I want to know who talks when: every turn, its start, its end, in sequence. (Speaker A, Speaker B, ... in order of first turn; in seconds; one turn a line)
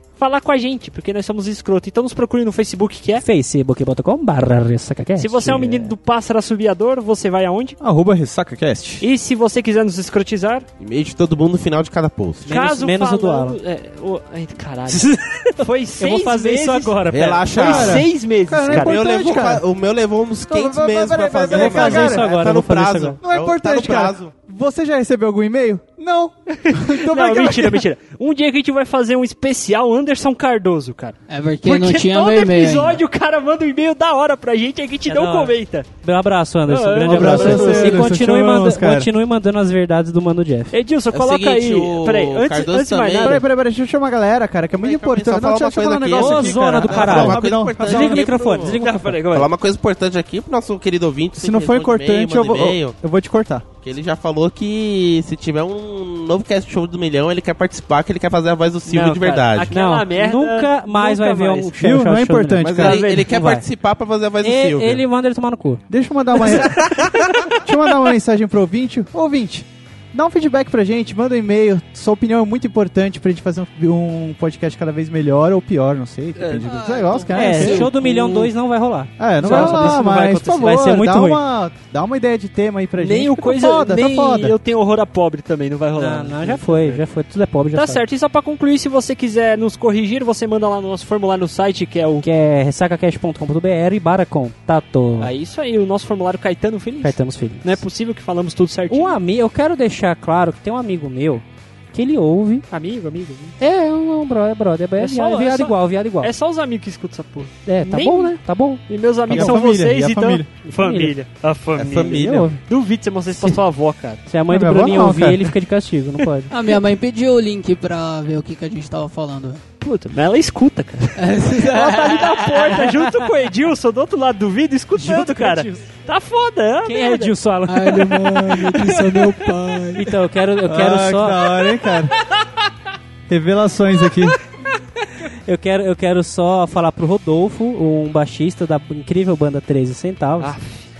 Speaker A: 0.2-3.2
Speaker B: 3.2-5.9
Speaker A: 5.2-7.8
Speaker C: 7.8-9.0
Speaker A: 9.0-10.7
Speaker D: 10.8-12.5
Speaker A: 12.4-19.0
Speaker B: 12.5-13.6
Speaker B: 14.9-17.9
Speaker D: 17.1-18.1
Speaker C: 17.6-19.6
Speaker D: 18.7-24.3
Speaker C: 20.5-22.5
Speaker B: 21.5-23.2
Speaker C: 23.2-27.8
Speaker A: 26.5-35.9
Speaker E: 31.3-33.0
Speaker B: 35.1-40.7
Speaker A: 36.7-38.1
Speaker C: 37.0-39.1
Speaker A: 40.7-43.4
Speaker D: 41.1-43.4
Speaker C: 43.2-48.3
Speaker D: 44.8-52.9
Speaker B: 46.1-49.2
Speaker A: 48.7-49.5
Speaker C: 51.4-53.6
Speaker D: 53.8-59.7
Speaker A: 58.9-61.7
Speaker B: 59.7-63.6
Speaker C: 61.8-63.0
Speaker D: 62.6-65.0
Speaker A: 62.8-63.3
Speaker B: 64.4-65.8
Speaker C: 65.9-66.9
Speaker D: 66.5-67.6
Speaker C: 67.6-77.9
Speaker A: 76.4-76.7
Speaker E: 76.6-77.9
Speaker B: 77.3-81.4
Speaker A: 77.4-78.5
Speaker C: 79.2-84.5
Speaker A: 79.4-80.6
Speaker A: 83.0-87.0
Speaker B: 86.0-88.0
Speaker A: 87.7-92.2
Speaker B: 92.2-95.3
Speaker A: 95.2-99.2
Speaker B: 97.0-97.8
Speaker B: 98.9-102.6
Speaker A: 102.7-103.6
Speaker B: 103.6-106.3
Speaker A: 105.0-114.2
Speaker B: 107.7-109.5
Speaker C: 109.3-110.5
Speaker B: 110.6-111.1
Speaker D: 111.8-112.5
Speaker B: 111.9-112.6
Speaker B: 114.3-116.5
Speaker C: 114.5-115.5
Speaker E: 116.5-119.6
Speaker A: 119.8-127.3
Speaker E: 121.2-122.8
Speaker B: 124.9-125.8
Speaker B: 126.8-128.3
Speaker E: 127.7-130.1
Speaker C: 128.0-128.7
Speaker A: 128.9-129.2
Speaker B: 130.0-131.6
Speaker C: 130.6-132.1
Speaker C: 133.3-134.4
Speaker B: 135.4-140.5
Speaker A: 140.4-140.9